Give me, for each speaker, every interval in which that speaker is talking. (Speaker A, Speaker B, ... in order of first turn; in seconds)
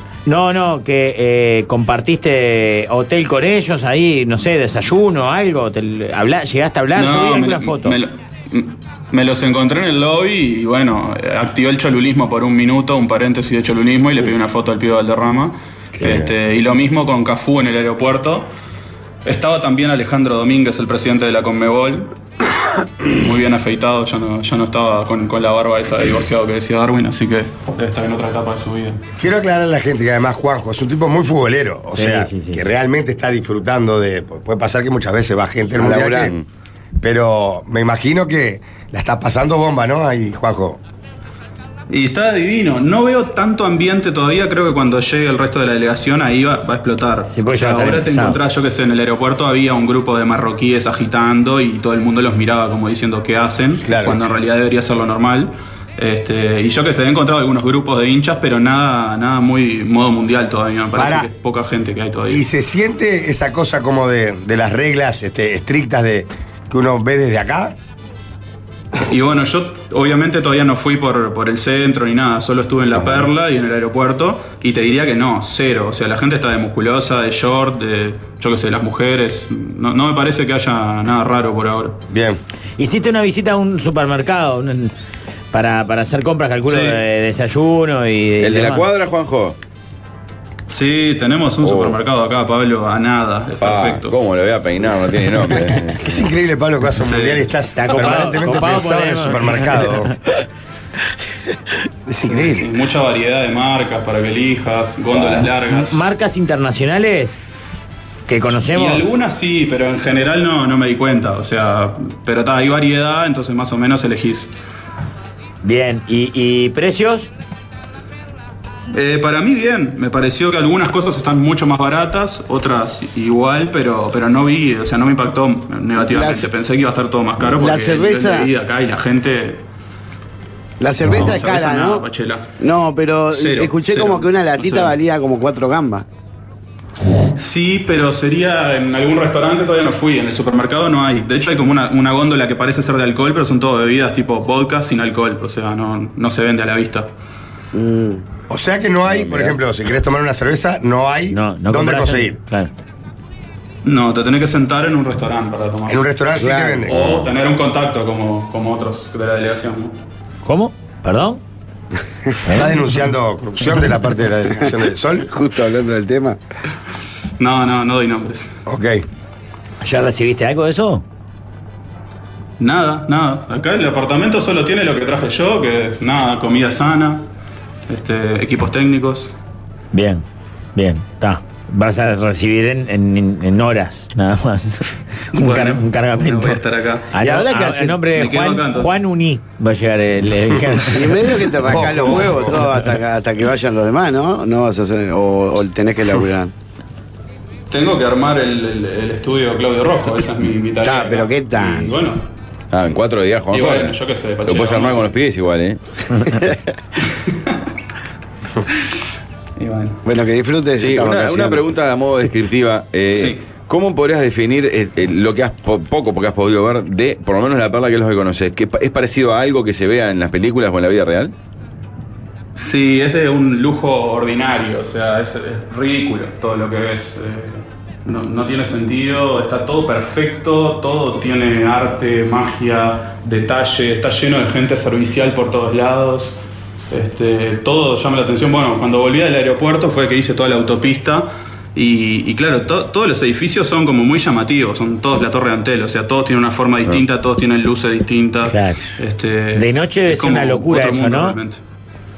Speaker A: 0.2-8.0, 31.9-32.6, 47.3-48.4, 82.8-84.9, 85.5-88.9, 97.8-100.0, 105.7-107.4, 108.3-109.1, 115.6-117.3, 151.3-152.7, 160.4-161.4, 162.4-162.8, 169.8-171.0, 179.9-180.2, 180.8-186.6, 187.1-191.2, 248.4-248.9, 249.5-251.4
Speaker B: 6.9-18.5, 19.2-22.1, 23.1-29.0, 41.9-62.4, 69.0-82.0, 86.7-87.0, 90.7-94.1, 97.0-97.5, 102.3-106.0, 108.7-114.5, 118.9-129.6, 131.0-132.4, 133.3-135.0, 137.3-147.1, 153.8-156.0, 156.9-159.9, 167.4-168.5, 172.6-177.2, 177.9-179.3, 185.3-187.1, 188.1-188.9, 197.7-202.2, 203.5-205.2, 209.6-210.0, 222.6-236.4, 236.9-251.6
Speaker C: 16.0-16.3, 35.8-36.4, 88.4-89.6, 91.6-92.0, 93.6-96.2, 105.1-105.5, 149.2-149.5, 156.9-157.3, 202.7-203.9, 204.4-206.4, 210.8-221.3
Speaker D: 29.2-36.3, 37.0-40.8, 53.8-54.2, 60.9-61.3, 62.3-67.7, 82.1-82.4, 96.0-100.1, 102.1-102.7, 148.5-152.4, 155.9-157.0, 162.5-165.3, 168.7-169.0, 191.7-192.6
Speaker E: 126.0-126.5, 127.4-128.5, 130.8-132.0, 132.6-136.0, 147.7-148.2, 156.4-156.8, 165.3-166.4, 187.2-188.0, 190.9-196.5, 200.8-201.9, 210.0-211.6